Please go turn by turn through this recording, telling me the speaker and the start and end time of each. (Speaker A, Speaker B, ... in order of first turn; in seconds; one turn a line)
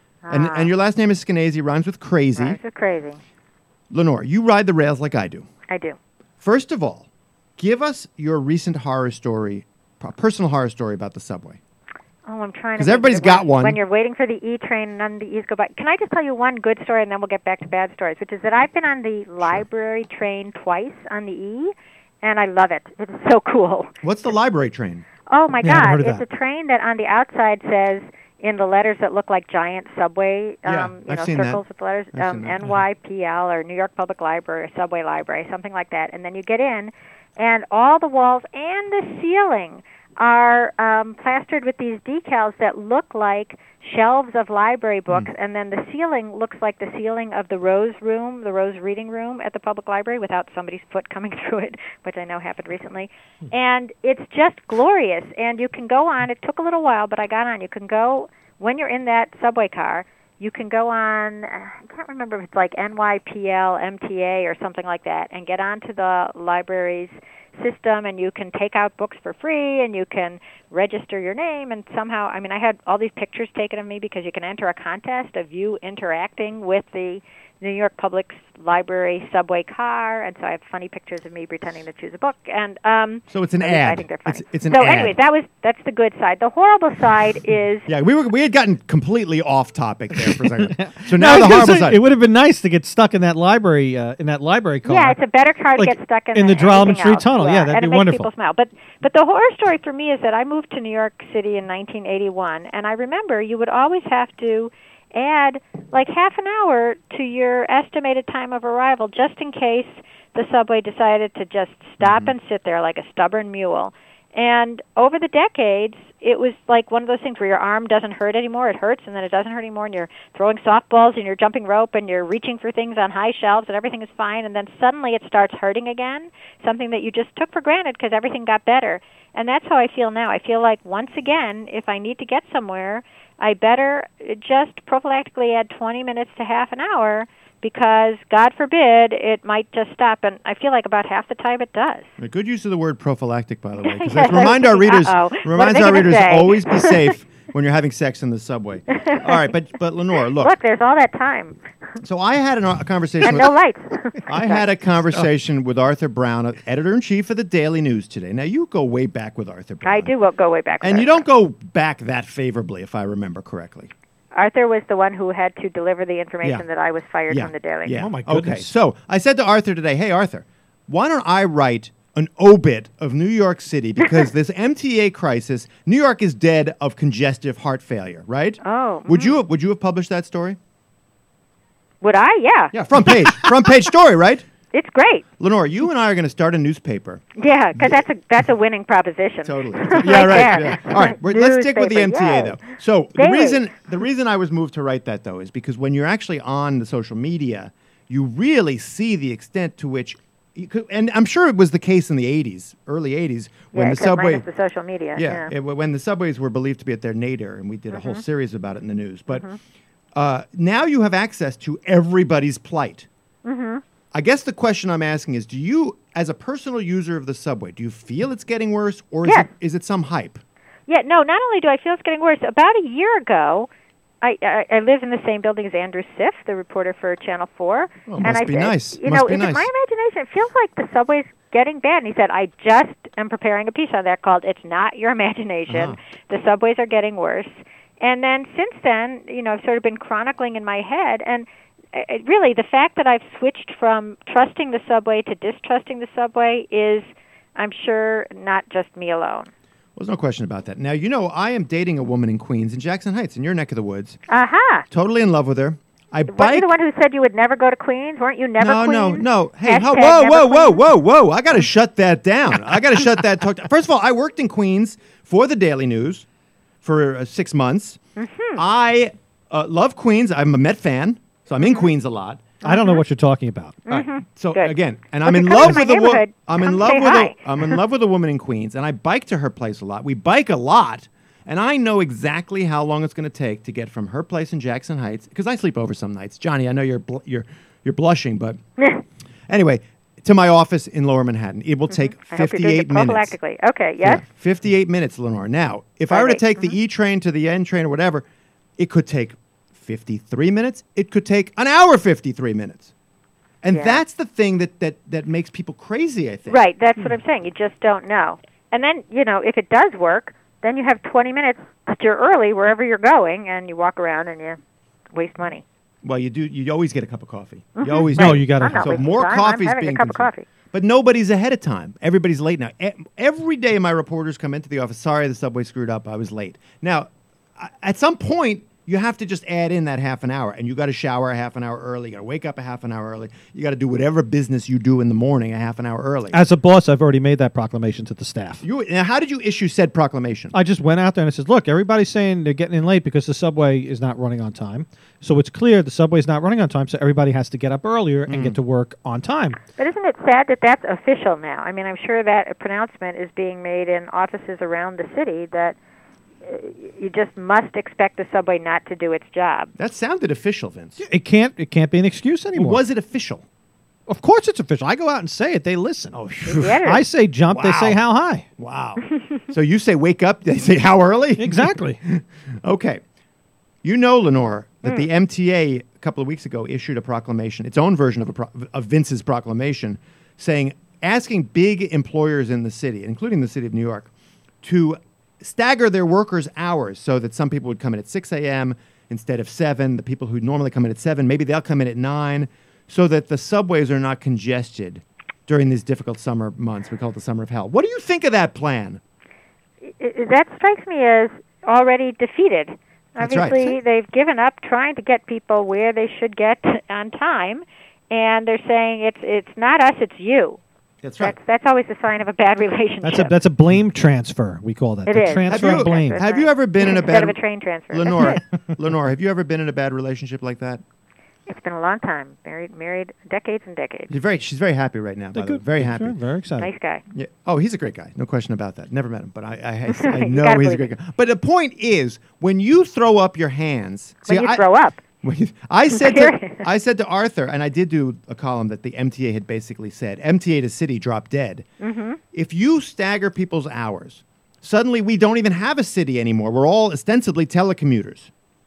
Speaker A: 0.2-0.7
Speaker B: 0.3-2.6
Speaker A: 2.4-3.2
Speaker B: 3.9-5.5
Speaker A: 5.7-6.0
Speaker B: 6.4-7.1
Speaker B: 7.6-11.6
Speaker A: 12.3-23.9
Speaker B: 12.8-13.8
Speaker B: 24.0-25.0
Speaker A: 25.3-87.9
Speaker C: 25.6-26.2
Speaker B: 30.6-31.6
Speaker B: 32.1-32.6
Speaker B: 83.3-85.1
Speaker B: 87.9-92.0
Speaker C: 90.2-95.2
Speaker A: 94.8-142.1
Speaker C: 95.8-98.3
Speaker B: 112.0-112.3
Speaker B: 142.2-150.6
Speaker A: 143.8-147.1
Speaker A: 148.9-149.3
Speaker A: 150.3-151.6
Speaker B: 152.0-153.5
Speaker A: 153.2-154.6
Speaker B: 154.3-160.1
Speaker A: 159.8-161.2
Speaker B: 160.8-163.9
Speaker A: 164.3-168.0
Speaker B: 167.3-180.6
Speaker C: 167.9-168.7
Speaker A: 178.6-179.3
Speaker A: 182.0-182.7
Speaker B: 182.7-184.4
Speaker A: 184.7-185.2
Speaker B: 185.4-187.2
Speaker A: 187.4-192.6
Speaker B: 187.8-188.0
Speaker B: 189.4-204.4
Speaker A: 193.2-193.6
Speaker A: 203.7-205.5
Speaker B: 205.2-209.4
Speaker A: 207.9-208.2
Speaker A: 209.3-209.6
Speaker B: 210.2-213.1
Speaker A: 213.4-213.8
Speaker B: 214.1-220.4
Speaker A: 220.9-223.7
Speaker A: 224.2-247.0
Speaker B: 228.1-229.7
Speaker B: 235.7-236.0
Speaker A: 247.6-249.5
Speaker B: 249.9-254.2
Speaker A: 254.3-254.8
Speaker B: 254.9-256.7
Speaker A: 256.3-260.8
Speaker B: 258.6-266.2
Speaker B: 266.8-268.0
Speaker A: 268.2-268.6
Speaker B: 268.6-272.6
Speaker C: 272.6-273.8
Speaker A: 272.6-273.0
Speaker A: 273.9-277.8
Speaker B: 273.9-288.6
Speaker B: 289.5-293.4
Speaker A: 291.9-294.2
Speaker B: 294.0-298.2
Speaker A: 296.1-296.8
Speaker B: 298.8-302.9
Speaker B: 303.6-306.6
Speaker A: 303.7-304.0
Speaker A: 306.5-314.6
Speaker A: 315.1-315.6
Speaker B: 316.0-336.4
Speaker A: 317.8-320.5
Speaker C: 318.1-319.0
Speaker C: 336.3-338.6
Speaker B: 338.6-340.5
Speaker C: 340.5-349.6
Speaker B: 348.3-348.6
Speaker A: 349.8-355.8
Speaker A: 356.4-359.7
Speaker B: 359.8-361.0
Speaker C: 361.0-362.8
Speaker B: 362.5-363.4
Speaker C: 364.1-368.5
Speaker B: 366.1-366.8
Speaker A: 366.4-367.0
Speaker B: 367.5-368.0
Speaker B: 368.6-373.0
Speaker C: 371.4-372.0
Speaker B: 373.8-384.1
Speaker B: 384.6-399.0
Speaker A: 399.8-410.6
Speaker B: 403.2-403.6
Speaker C: 403.3-403.8
Speaker B: 411.0-411.4
Speaker A: 411.2-413.3
Speaker C: 413.0-416.2
Speaker A: 415.1-418.4
Speaker B: 415.5-417.4
Speaker B: 417.9-420.8
Speaker A: 421.5-424.1
Speaker B: 424.1-426.2
Speaker C: 425.3-426.7
Speaker A: 426.6-427.0
Speaker B: 427.1-434.6
Speaker A: 429.9-430.9
Speaker A: 434.3-435.0
Speaker B: 435.2-441.6
Speaker A: 435.9-436.6
Speaker A: 441.8-442.2
Speaker B: 442.3-448.3